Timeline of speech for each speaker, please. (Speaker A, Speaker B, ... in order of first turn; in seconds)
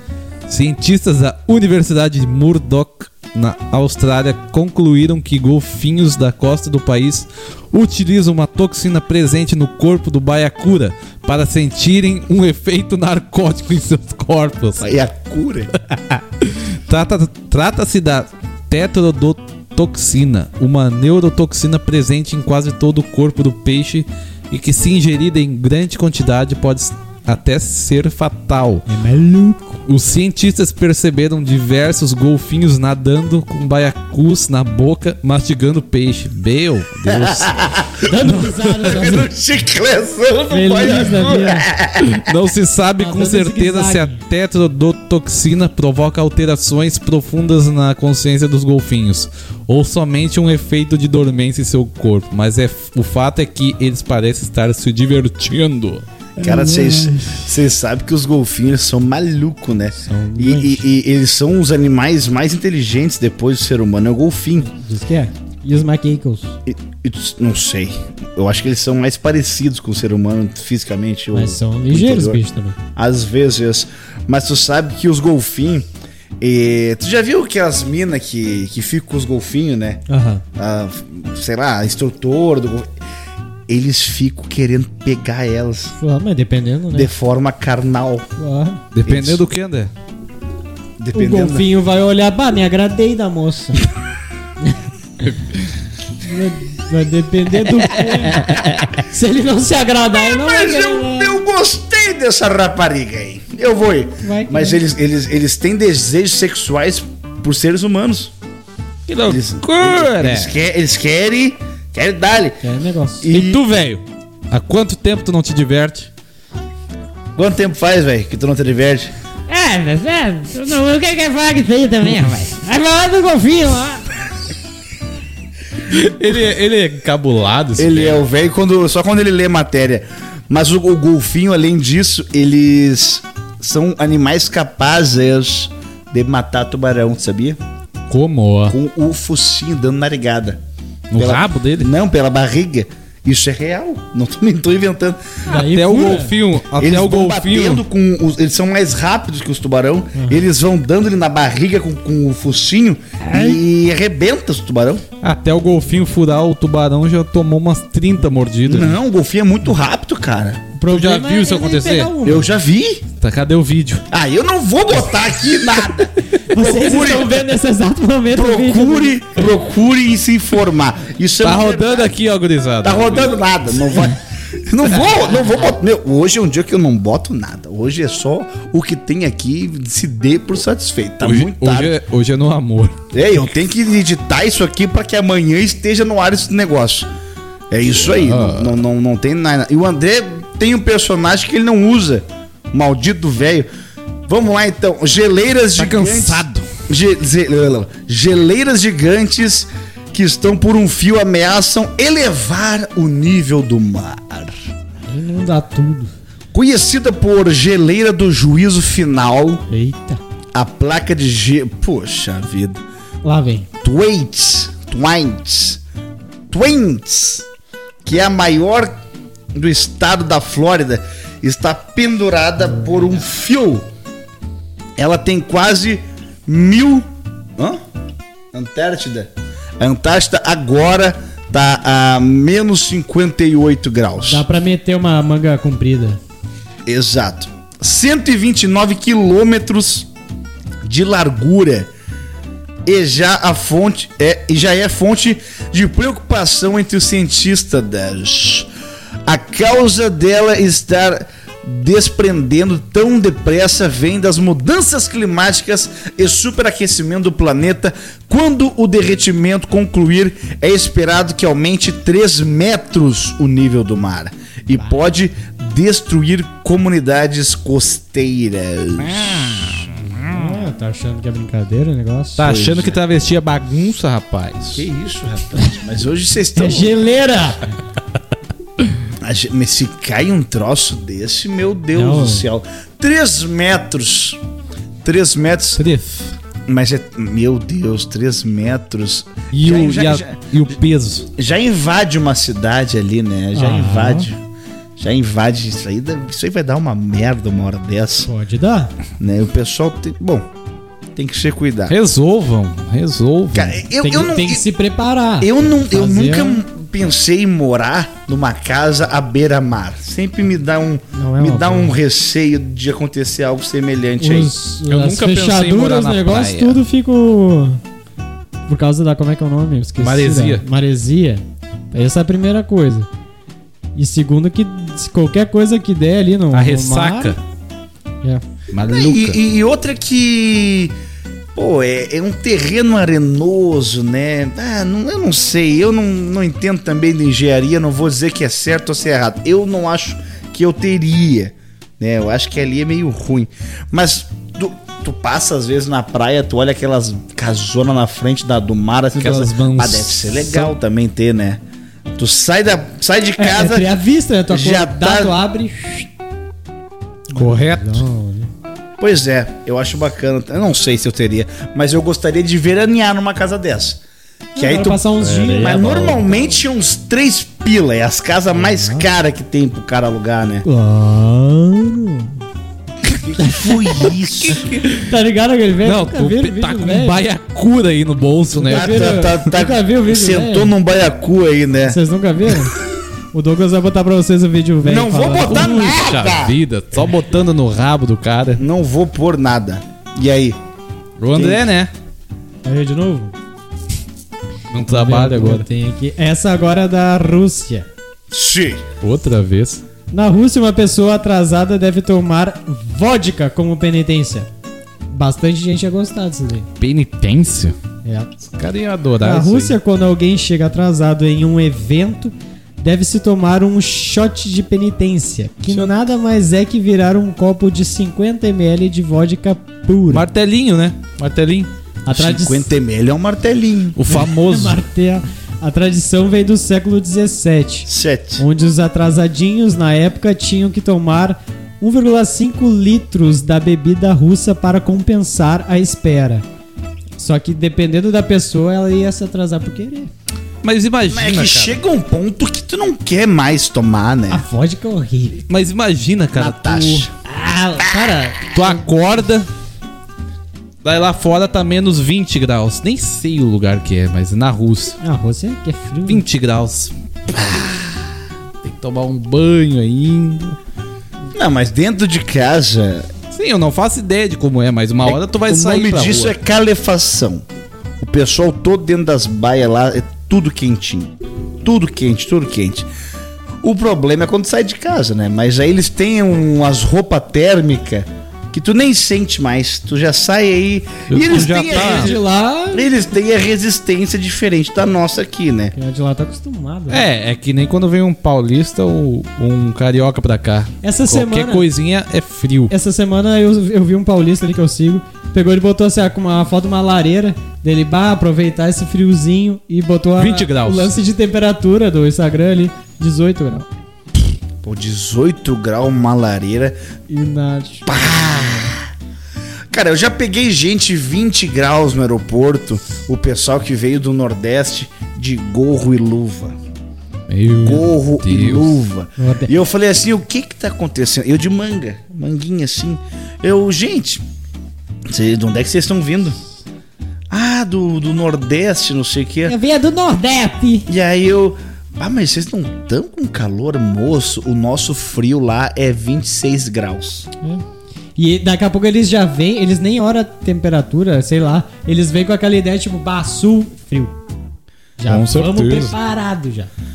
Speaker A: 0.5-14.9, 15.8-28.8, 29.9-37.5, 38.2-38.7, 42.0-56.0, 88.9-89.9, 109.1-110.5, 113.3-116.1, 125.9-128.2, 138.1-138.8, 141.1-141.9, 145.5-147.8, 155.2-159.0, 160.9-162.1, 163.2-164.0, 171.4-173.3, 181.2-182.9, 188.0-188.8, 195.8-196.7, 269.0-270.5, 272.4-274.8, 285.8-286.3, 289.5-291.3, 301.9-303.8, 314.9-316.8, 320.0-320.6, 326.5-327.4, 328.7-329.4, 349.1-350.7, 357.3-358.0, 365.2-366.0, 374.5-375.0, 375.8-379.2, 385.5-388.6, 391.2-391.9, 394.7-395.6, 399.0-399.8, 406.8-407.8, 408.5-409.8, 415.7-415.9, 420.1-421.7, 423.9-424.8, 440.6-441.8, 445.5-447.1, 448.5-449.5, 450.8-455.0, 456.1-456.9, 458.6-460.6, 463.3-466.3, 481.1-482.1, 486.9-492.7, 500.2-500.9, 517.3-518.8, 545.1-545.9
Speaker B: 14.8-15.7, 37.0-42.2, 56.4-64.7, 66.7-72.4, 73.0-75.8, 76.4-80.0, 80.6-82.9, 83.7-85.9, 86.9-88.3, 89.0-89.4, 91.0-91.7, 98.0-98.7, 100.2-108.3, 109.3-112.6, 113.2-113.6, 117.3-119.1, 127.8-137.6, 138.7-140.6, 141.2-145.2, 146.7-155.0, 158.7-160.7, 162.2-163.0, 164.1-167.3, 168.3-172.1, 172.8-181.9, 183.1-187.1, 187.7-193.7, 194.3-204.5, 206.5-209.6, 210.5-212.8, 213.8-215.8, 216.5-217.4, 218.0-219.0, 219.5-223.8, 225.0-227.8, 228.5-234.4, 236.8-240.1, 240.8-241.9, 242.8-248.7, 249.2-269.9, 272.4-273.0, 274.7-276.9, 279.2-284.4, 285.0-285.8, 286.7-290.4, 291.4-294.4, 295.0-298.3, 299.2-300.5, 301.1-301.9, 303.5-304.6, 305.4-314.5, 328.9-330.9, 331.5-351.6, 352.1-353.9, 354.5-355.4, 359.0-364.0, 364.6-370.6, 373.0-374.7, 378.6-382.0, 384.8-386.6, 388.6-390.6, 391.3-391.7, 398.3-398.8, 422.1-424.0, 427.9-428.4, 441.1-444.4, 446.3-447.1, 457.3-458.1, 461.3-463.1, 465.0-467.4, 468.0-472.9, 473.6-485.7, 504.6-506.8, 507.9-508.9, 509.7-516.5, 517.6-524.2, 525.1-526.4, 527.3-529.5, 530.9-537.3
Speaker C: 28.9-29.8, 38.0-39.3, 40.5-41.7, 43.0-44.2, 56.4-57.5, 60.0-60.8, 64.6-66.6, 71.3-72.8, 80.1-80.4, 86.0-87.1, 88.4-88.8, 91.1-93.8, 96.2-101.4, 104.2-104.8, 112.6-113.3, 119.5-124.1, 145.5-146.3, 150.1-150.4, 153.3-153.6, 160.8-162.5, 166.5-169.2, 205.1-206.1, 209.7-210.2, 213.2-213.7, 222.6-223.2, 234.2-236.2, 270.0-272.5, 276.6-277.7, 281.9-282.5, 293.5-294.3, 298.2-298.9, 304.0-306.6, 311.1-312.0, 314.2-317.8, 318.7-323.1, 323.9-327.3, 353.4-356.1, 357.3-358.5, 364.6-366.6, 368.5-369.1, 370.6-372.4, 373.4-374.1, 374.9-377.2, 378.6-380.7, 381.9-382.8, 383.3-386.0, 392.6-393.3, 394.9-397.9, 400.1-404.5, 405.1-406.7, 408.0-408.3, 409.2-420.2, 422.0-422.7, 424.1-436.4, 437.2-440.1, 444.3-445.4, 447.2-448.8, 455.0-456.2, 481.3-482.9, 485.7-487.0, 490.8-491.6, 492.7-503.7, 507.1-508.7, 519.2-519.5, 529.5-530.9, 538.2-544.1, 545.0-546.7